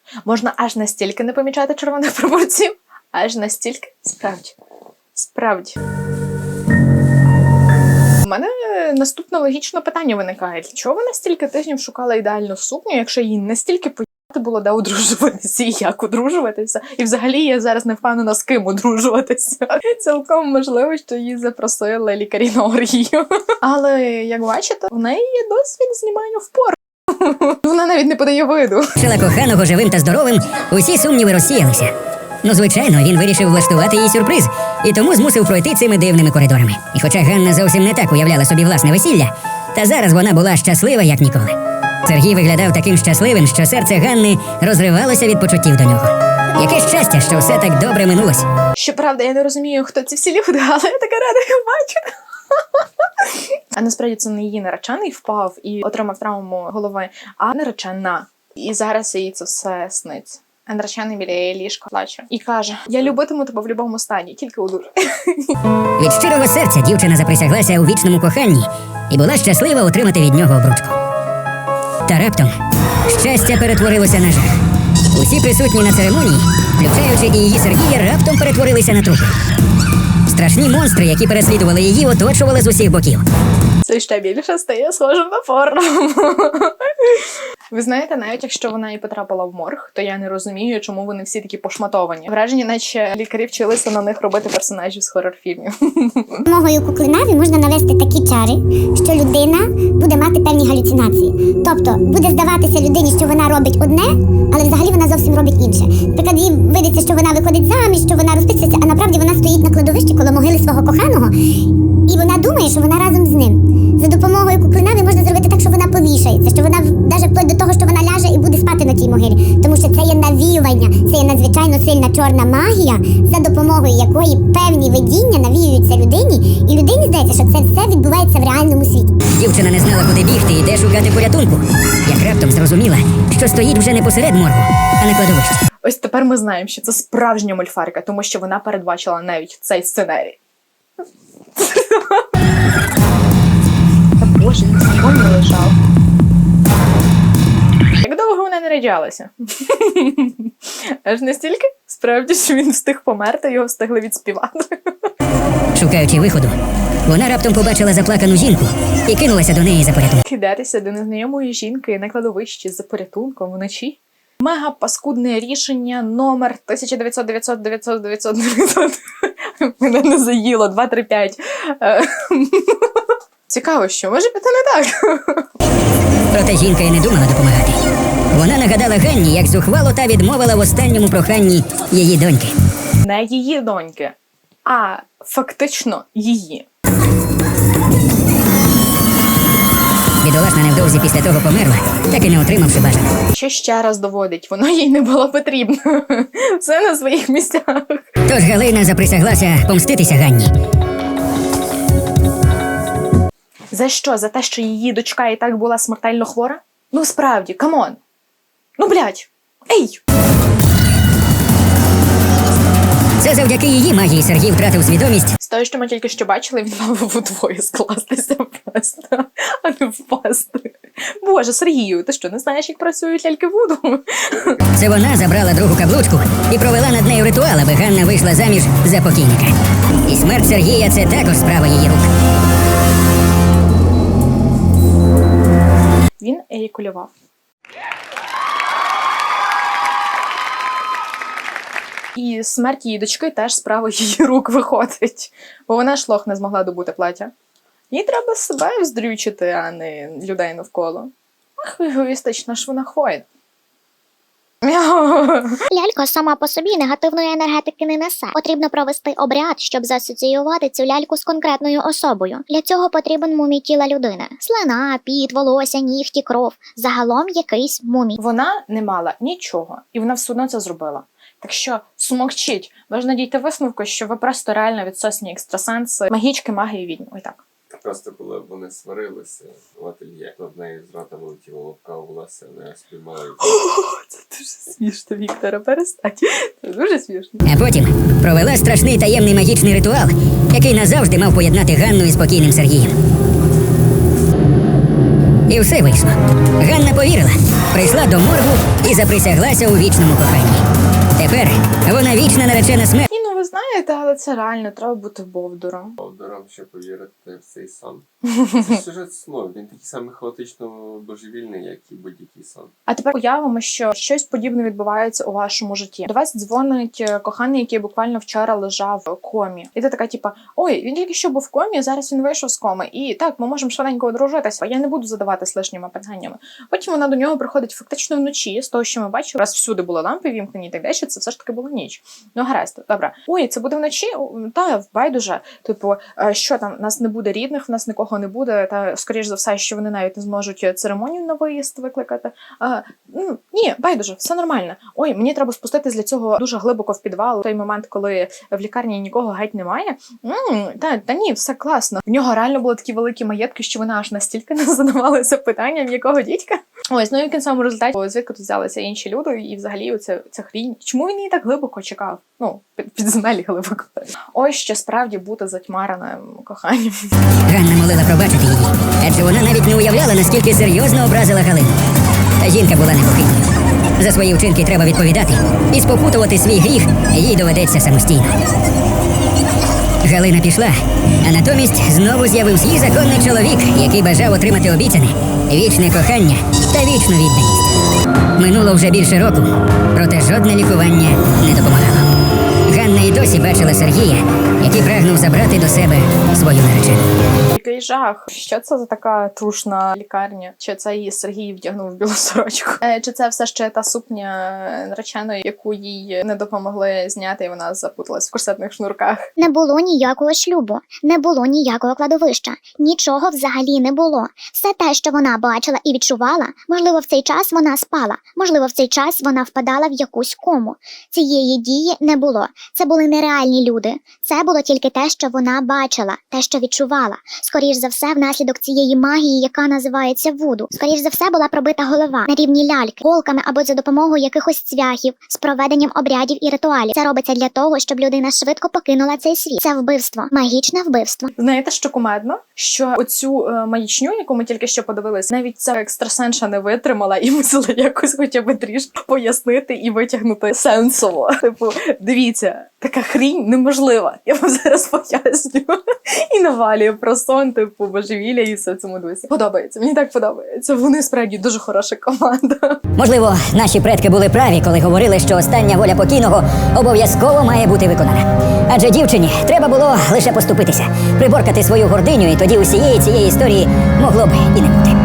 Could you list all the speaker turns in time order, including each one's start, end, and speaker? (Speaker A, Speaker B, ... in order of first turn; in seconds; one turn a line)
Speaker A: 0.2-4.6
Speaker A: 5.1-5.8
Speaker A: 8.2-29.0
Speaker B: 29.0-31.9
Speaker B: 32.4-48.5
Speaker A: 48.7-65.6
Speaker B: 66.0-71.0
Speaker B: 72.1-72.6
Speaker B: 73.1-74.6
Speaker B: 75.1-79.3
Speaker B: 80.3-83.2
Speaker A: 83.8-96.5
Speaker C: 96.5-111.3
Speaker C: 112.1-129.1
Speaker B: 129.4-135.6
Speaker A: 135.8-140.4
Speaker A: 141.6-142.3
Speaker A: 144.2-145.8
Speaker A: 148.0-154.9
Speaker B: 155.7-156.6
Speaker B: 157.1-160.2
Speaker A: 160.2-175.5
Speaker B: 176.3-177.8
Speaker B: 178.3-182.6
Speaker A: 183.0-186.7
Speaker B: 190.2-193.2
Speaker A: 193.3-198.1
Speaker B: 198.2-200.5
Speaker A: 203.7-208.0
Speaker A: 208.8-210.0
Speaker B: 213.2-215.3
Speaker A: 215.4-224.6
Speaker B: 224.8-229.6
Speaker B: 230.1-232.1
Speaker A: 236.2-237.1
Speaker A: 242.1-247.3
Speaker A: 247.9-253.2
Speaker A: 254.6-255.6
Speaker D: 255.7-268.2
Speaker A: 268.2-277.4
Speaker E: 277.7-283.6
Speaker A: 283.4-287.4
Speaker B: 287.5-292.9
Speaker B: 295.5-300.6
Speaker B: 301.2-303.1
Speaker A: 303.1-306.0
Speaker E: 306.0-312.7
Speaker A: 312.9-367.1
Speaker B: 367.5-371.8
Speaker B: 372.4-378.4
Speaker B: 380.0-387.7
Speaker B: 388.4-392.1
Speaker B: 392.7-397.0
Speaker A: 397.5-409.2
Speaker D: 409.4-441.3
Speaker A: 441.4-462.8
Speaker B: 463.0-474.9